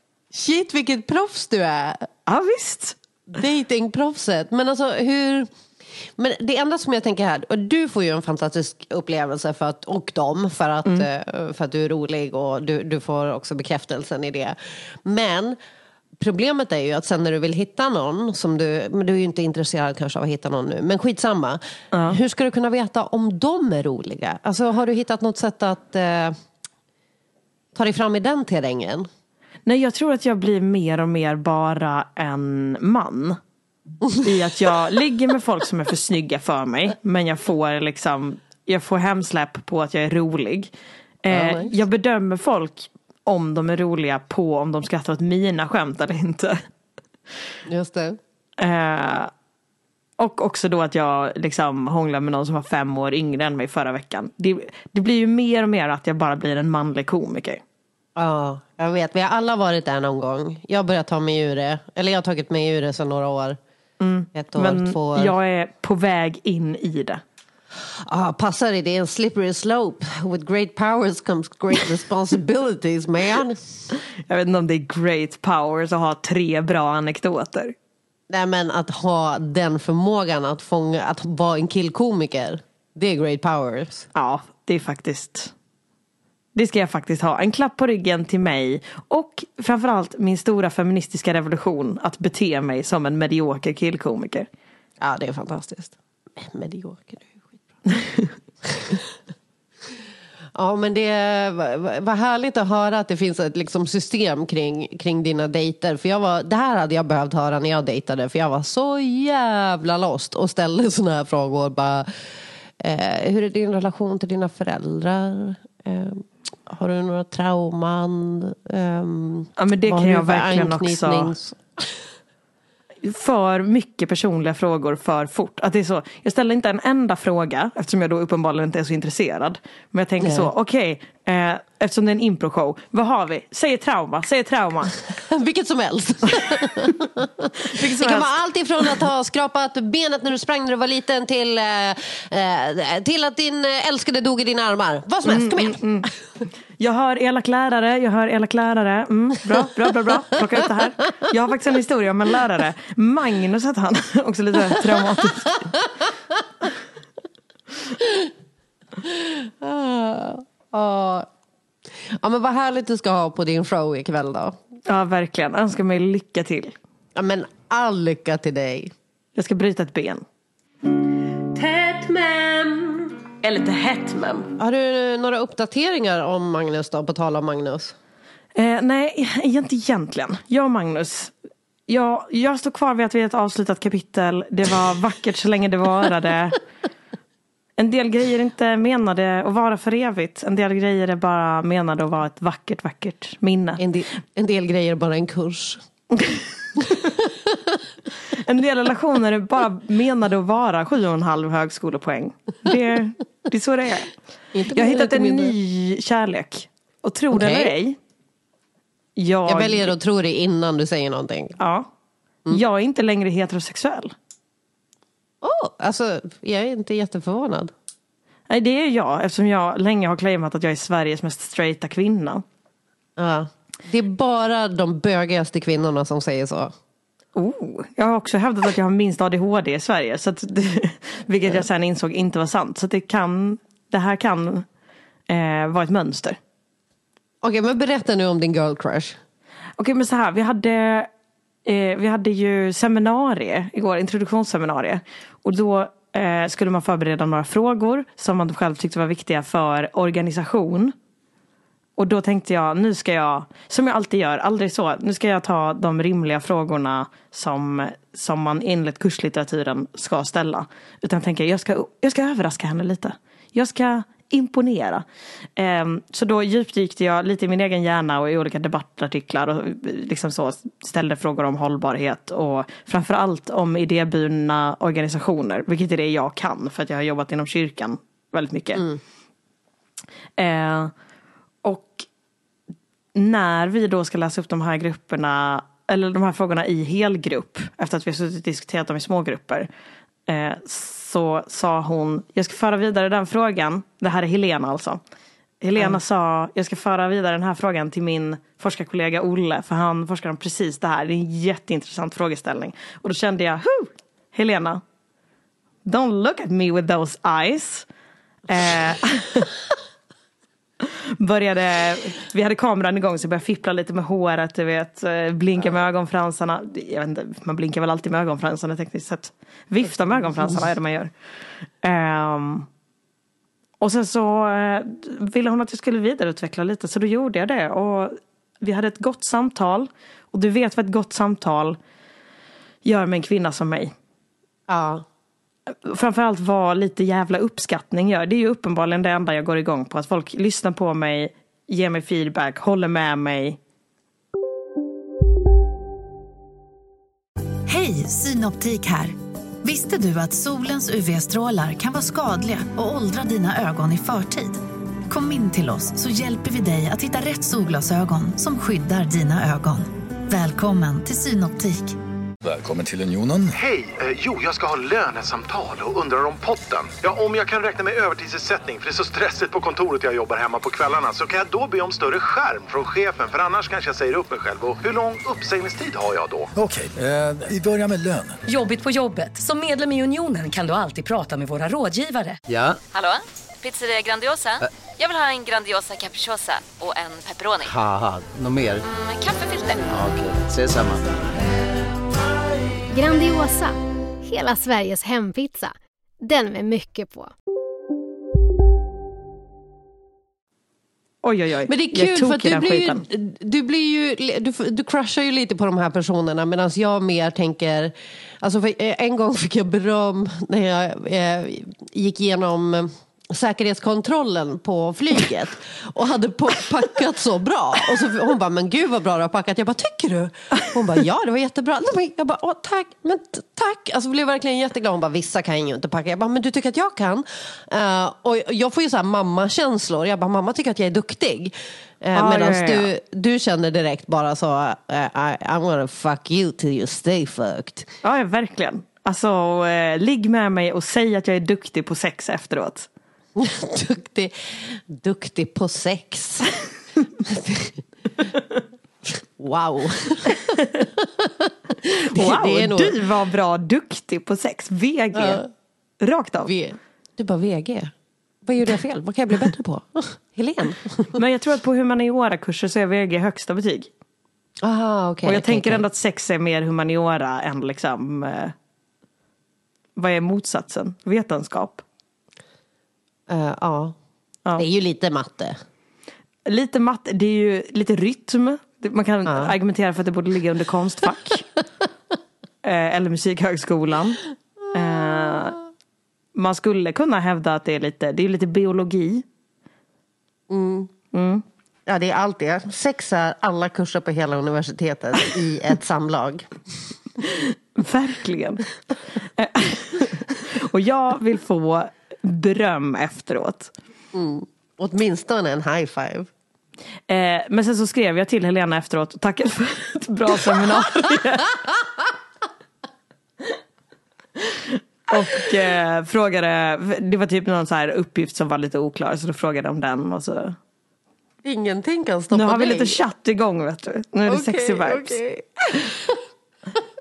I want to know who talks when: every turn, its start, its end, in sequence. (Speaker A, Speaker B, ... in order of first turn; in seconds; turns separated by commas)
Speaker A: 0.3-2.1, Speaker B: 2.3-3.0, Speaker A: 3.3-5.5, Speaker A: 6.2-15.6, Speaker A: 16.2-26.4, Speaker B: 21.9-22.2, Speaker A: 27.8-29.1, Speaker B: 29.7-33.4, Speaker B: 34.2-40.7, Speaker B: 41.2-46.6, Speaker A: 41.3-41.7, Speaker A: 47.7-48.2, Speaker B: 48.6-49.3, Speaker B: 50.2-57.6, Speaker A: 58.2-63.6, Speaker B: 64.0-67.2, Speaker A: 64.3-65.3, Speaker A: 68.0-73.6, Speaker B: 74.3-77.7, Speaker A: 78.3-84.1, Speaker B: 84.1-85.5, Speaker B: 86.5-94.5, Speaker A: 95.0-97.6, Speaker B: 97.9-98.3, Speaker A: 98.7-99.0, Speaker A: 100.5-112.1, Speaker A: 112.8-121.9, Speaker B: 119.6-121.3, Speaker B: 123.0-134.9, Speaker A: 130.2-130.5, Speaker A: 135.1-145.8, Speaker B: 137.7-138.4, Speaker B: 145.3-146.1, Speaker B: 146.8-155.6, Speaker A: 159.0-161.3, Speaker A: 161.9-164.6, Speaker B: 164.9-166.8, Speaker A: 167.2-168.9, Speaker B: 169.4-170.2, Speaker A: 171.5-173.1, Speaker A: 174.6-177.9, Speaker B: 178.6-181.3, Speaker B: 181.9-186.6, Speaker B: 187.8-193.8, Speaker A: 193.8-195.8, Speaker B: 196.2-196.8, Speaker A: 197.0-197.6, Speaker B: 198.3-204.1, Speaker A: 204.5-205.6, Speaker B: 204.7-208.0, Speaker A: 207.3-207.8, Speaker B: 209.2-209.9, Speaker A: 209.5-211.6, Speaker B: 211.6-211.9, Speaker B: 212.5-214.1, Speaker A: 215.4-217.7, Speaker B: 218.5-222.4, Speaker A: 223.2-226.7, Speaker B: 227.3-234.7, Speaker B: 235.3-236.4, Speaker A: 237.4-239.2, Speaker B: 239.8-241.1, Speaker B: 241.7-250.9, Speaker B: 252.0-265.1, Speaker B: 265.6-278.8, Speaker A: 278.8-279.0, Speaker B: 280.4-280.9, Speaker B: 281.6-282.1, Speaker B: 283.1-289.7, Speaker B: 290.3-295.0, Speaker B: 295.6-304.8, Speaker B: 305.9-307.9, Speaker B: 308.5-309.5, Speaker B: 310.8-321.1, Speaker B: 321.8-322.7, Speaker B: 323.8-331.8, Speaker B: 332.9-333.9, Speaker A: 334.7-335.1, Speaker B: 335.9-343.6, Speaker C: 347.7-362.0, Speaker D: 362.4-363.5, Speaker E: 363.6-376.5, Speaker D: 376.6-378.4, Speaker F: 378.5-382.4, Speaker G: 382.5-382.8, Speaker H: 383.6-387.7, Speaker G: 387.7-388.8, Speaker H: 389.2-389.7, Speaker G: 389.9-391.0, Speaker I: 392.9-397.3, Speaker B: 401.2-403.0, Speaker A: 401.7-437.9, Speaker B: 432.1-432.9, Speaker B: 438.0-442.9, Speaker A: 443.4-446.6, Speaker A: 447.2-447.8, Speaker A: 449.1-453.0, Speaker B: 452.1-455.4, Speaker A: 455.1-455.5, Speaker B: 456.0-456.5, Speaker A: 456.5-457.9, Speaker A: 458.4-461.2, Speaker B: 461.2-463.9, Speaker A: 464.6-465.8, Speaker B: 465.2-468.5, Speaker B: 470.0-471.8, Speaker A: 473.3-474.0, Speaker A: 474.6-475.6, Speaker B: 476.5-481.5, Speaker A: 479.3-479.5, Speaker B: 482.6-484.2, Speaker A: 484.7-485.5, Speaker B: 484.7-485.6, Speaker B: 486.4-489.2, Speaker A: 490.5-490.9, Speaker B: 491.1-491.4, Speaker A: 491.9-496.5, Speaker B: 497.3-498.7, Speaker B: 499.4-503.7, Speaker A: 504.1-506.3, Speaker B: 507.1-511.6, Speaker B: 514.5-520.6, Speaker A: 521.4-523.0, Speaker B: 522.3-525.2, Speaker A: 524.2-526.2